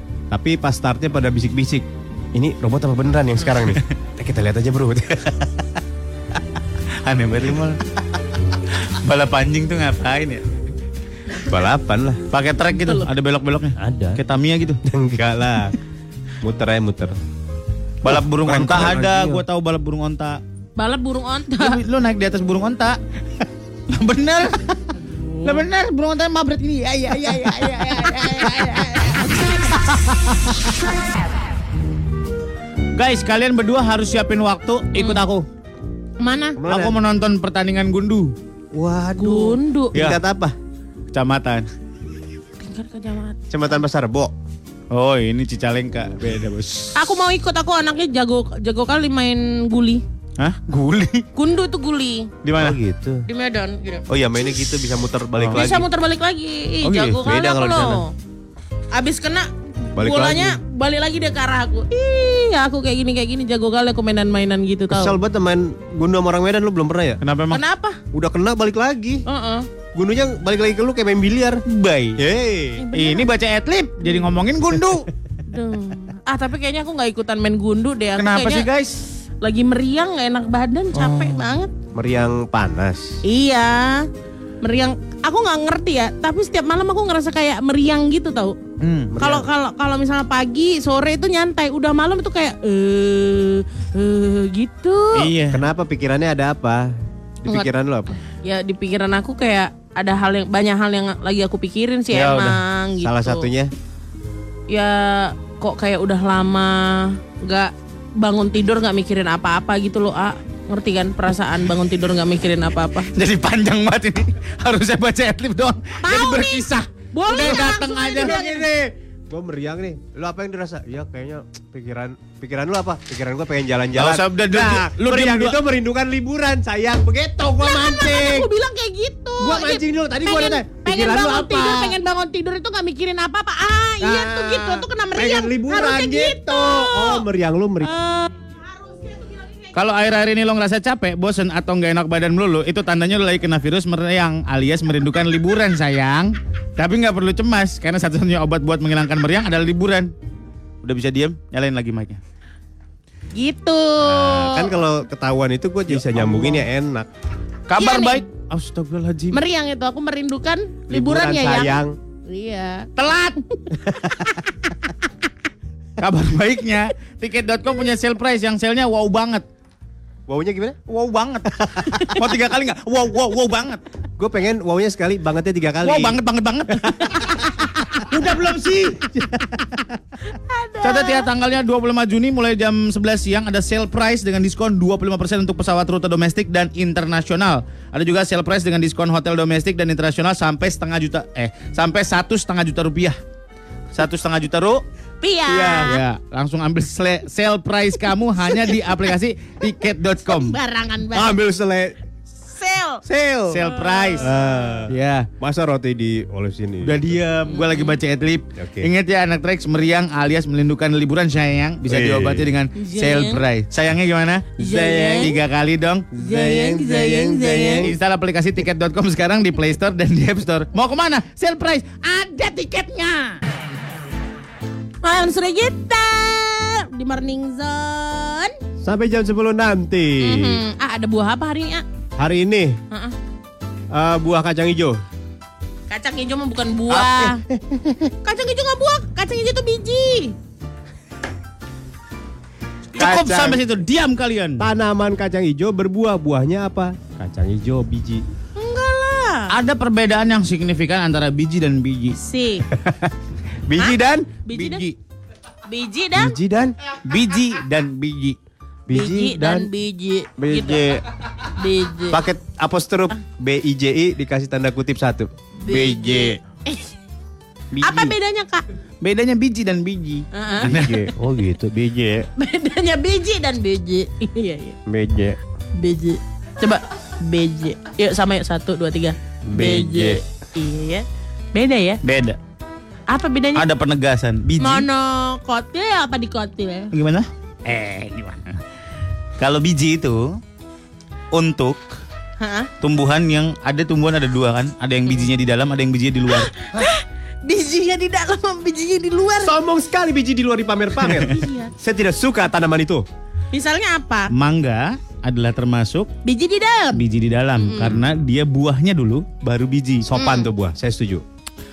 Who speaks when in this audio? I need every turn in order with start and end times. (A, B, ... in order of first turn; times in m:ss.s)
0:00.3-0:05.5 A
0:07.0-0:07.8 B
0:08.8-0:10.4 B
0:11.4-0:12.2 A
0:12.3-0:14.8 B
0:12.8-0:13.1 C
0:13.8-0:14.2 A
0:14.9-0:15.8 A
0:16.4-0:17.2 A
0:18.0-0:20.4 B
0:18.0-0:19.4 A
0:20.8-0:21.8 C
0:21.6-0:23.0 B
0:23.9-0:30.8 B
0:25.1-0:25.6 C
0:28.0-0:29.7 C
0:33.0-0:35.5 B
0:35.0-0:35.2 C
0:36.2-0:36.6 C
0:36.6-0:37.0 A
0:36.7-0:38.4 B
0:38.7-0:40.6 A
0:39.2-0:40.0 C
0:39.9-0:40.2 B
0:41.1-0:41.7 B
0:42.6-0:43.4 C
0:43.5-0:44.3 A
0:44.9-0:47.0 B
0:46.2-0:46.6 A
0:47.0-0:50.0 C
0:50.4-0:51.2 B
0:51.4-0:52.3 C
0:52.4-0:52.8 B
0:52.6-0:53.2 A
0:53.3-0:54.1 C
0:54.1-0:55.9 A
0:55.4-0:55.7 B
0:55.5-0:58.1 C
0:56.8-0:57.2 B
0:57.2-0:58.0 A
0:58.9-1:05.2 C
1:00.0-1:00.6 A
1:04.9-1:07.2 A
1:07.2-1:07.6 B
1:07.5-1:08.0 C
1:08.1-1:09.2 A
1:09.3-1:09.7 C
1:09.9-1:11.6 A
1:11.7-1:12.2 B
1:12.2-1:12.8 A
1:12.8-1:13.3 C
1:12.9-1:15.1 B
1:15.5-1:18.7 C
1:18.2-1:19.0 B
1:19.4-1:21.7 C
1:21.0-1:21.4 B
1:21.9-1:23.2 A
1:23.2-1:24.1 C
1:24.6-1:28.6 C
1:28.8-1:29.2 B
1:29.1-1:29.5 A
1:29.2-1:35.3 C
1:35.2-1:35.7 B
1:35.5-1:38.2 A
1:38.4-1:43.5 C
1:42.1-1:42.6 B
1:43.0-1:43.7 A
1:44.7-1:53.1 C
1:53.2-1:58.4 B
1:56.0-1:58.7 C
1:57.4-2:08.5 A
2:04.0-2:05.6 B
2:07.6-2:17.3 C
2:09.4-2:12.0 A
2:14.0-2:17.9 A
2:17.8-2:19.7 C
2:19.7-2:30.1 B
2:30.8-2:32.2 B
2:33.4-2:34.7 C
2:34.0-2:37.1 A
2:35.9-2:36.6 B
2:37.7-2:39.4 B
2:37.8-2:38.2 C
2:39.3-2:42.9 C
2:40.9-2:42.0 A
2:43.0-2:43.4 B
2:43.6-2:44.5 C
2:46.0-2:49.4 B
2:50.3-2:50.8 A
2:50.9-2:53.8 B
2:54.2-2:56.2 A
2:55.8-2:59.2 B
3:00.3-3:01.3 C
3:00.8-3:13.2 B
3:13.9-3:14.8 B
3:15.2-3:16.0 C
3:15.5-3:20.6 B
3:15.5-3:15.8 A
3:20.2-3:21.4 C
3:21.1-3:22.0 A
3:22.5-3:23.0 C
3:23.1-3:23.6 A
3:23.1-3:24.3 B
3:23.6-3:24.3 C
3:24.2-3:27.2 A
3:24.9-3:25.3 B
3:26.8-3:36.1 B
3:27.5-3:28.0 C
3:28.6-3:28.9 A
3:31.9-3:32.5 A
3:32.8-3:33.4 C
3:34.6-3:35.4 C
3:34.7-3:35.3 A
3:36.2-3:38.0 A
3:36.2-3:37.9 C
3:37.8-3:43.4 B
3:45.0-3:48.6 C
3:48.8-3:50.6 A
3:50.2-3:51.8 C
3:52.2-3:52.8 A
3:53.9-3:55.0 A
3:55.9-3:57.4 C
3:56.9-3:57.3 B
3:57.5-3:58.1 A
3:58.2-4:00.3 C
4:03.0-4:04.7 B
4:03.0-4:03.6 A
4:04.6-4:08.2 A
4:08.6-4:09.5 C
4:09.5-4:12.2 B
4:12.2-4:12.7 C
4:12.7-4:13.1 A
4:13.7-4:14.3 A
4:13.8-4:14.9 C
4:14.5-4:15.0 B
4:15.7-4:16.4 C
4:16.2-4:16.8 A
4:17.0-4:18.4 B
4:18.9-4:19.7 A
4:18.9-4:20.9 C
4:20.4-4:21.0 A
4:21.5-4:22.2 C
4:22.1-4:25.3 A
4:25.6-4:26.9 C
4:25.7-4:26.4 B
4:27.8-4:28.1 A
4:27.8-4:28.7 C
4:29.0-4:31.1 B
4:30.3-4:30.7 C
4:30.6-4:32.3 A
4:32.4-4:34.8 C
4:34.9-4:35.4 A
4:35.8-4:42.0 C
4:39.5-4:40.2 A
4:42.0-4:42.4 B
4:43.1-4:43.7 C
4:43.6-4:44.9 B
4:44.6-4:46.9 C
4:46.9-4:48.6 B
4:49.4-4:50.4 B
4:51.3-4:51.8 B
4:52.4-4:52.7 C
4:52.8-4:56.5 B
4:56.3-4:59.5 C
4:59.4-5:03.0 A
5:01.2-5:01.7 C
5:03.5-5:04.3 C
5:04.3-5:06.1 B
5:06.2-5:07.0 C
5:06.9-5:10.1 B
5:07.6-5:08.0 C
5:10.0-5:11.2 A
5:10.1-5:10.5 C